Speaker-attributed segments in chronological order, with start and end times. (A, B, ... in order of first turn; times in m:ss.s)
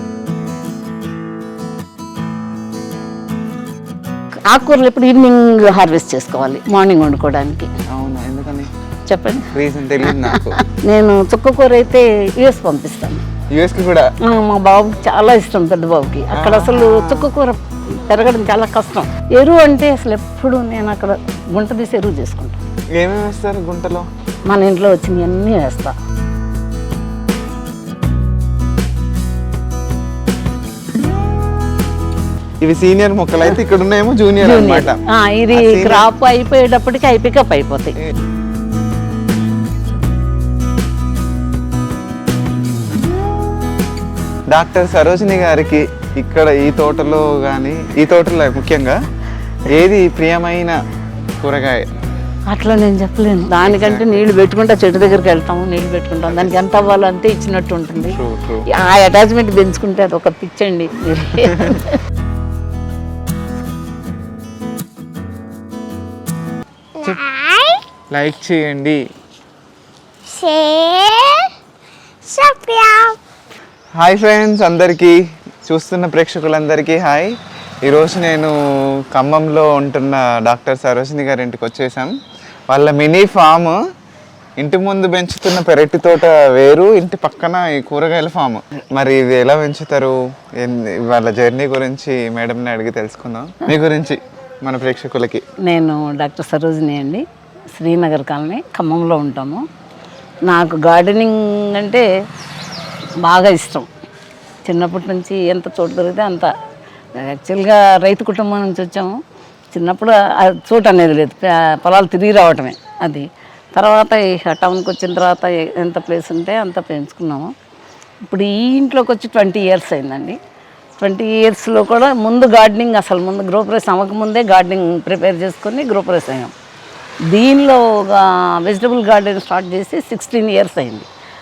0:04.5-0:07.7 A
0:07.9-0:08.7 B
0:09.1-0:09.5 A
0:09.5-0:10.6 B
0:10.0-0:13.2 A
0:13.5-0:14.1 B
0:14.2-0:22.6 A
0:16.3-0:17.3 B
0:23.0-0:24.1 B
0:24.5-0:25.9 A
0:32.6-0:35.0 B
0:34.4-0:38.0 A
0:35.5-0:36.0 B
0:44.5-0:49.0 B
0:49.7-0:50.8 B
0:51.4-0:51.8 B
0:52.5-0:58.2 A
0:53.6-0:54.3 B
0:56.3-0:56.7 B
0:58.0-0:58.6 B
0:58.7-1:02.0 A
1:01.4-1:01.8 B
1:07.0-1:07.8 C
1:08.1-1:09.0 B
1:10.3-1:11.5 C
1:12.2-1:13.2 C
1:14.0-1:22.1 B
1:22.7-1:23.8 B
1:24.6-1:35.4 B
1:35.6-1:37.2 A
1:37.7-1:39.6 A
1:40.5-1:42.0 A
1:43.2-1:43.9 A
1:44.6-1:46.5 A
1:47.2-1:49.1 A
1:49.7-1:57.5 A
1:58.2-2:00.4 A
2:01.0-2:06.5 A
2:07.3-2:11.1 A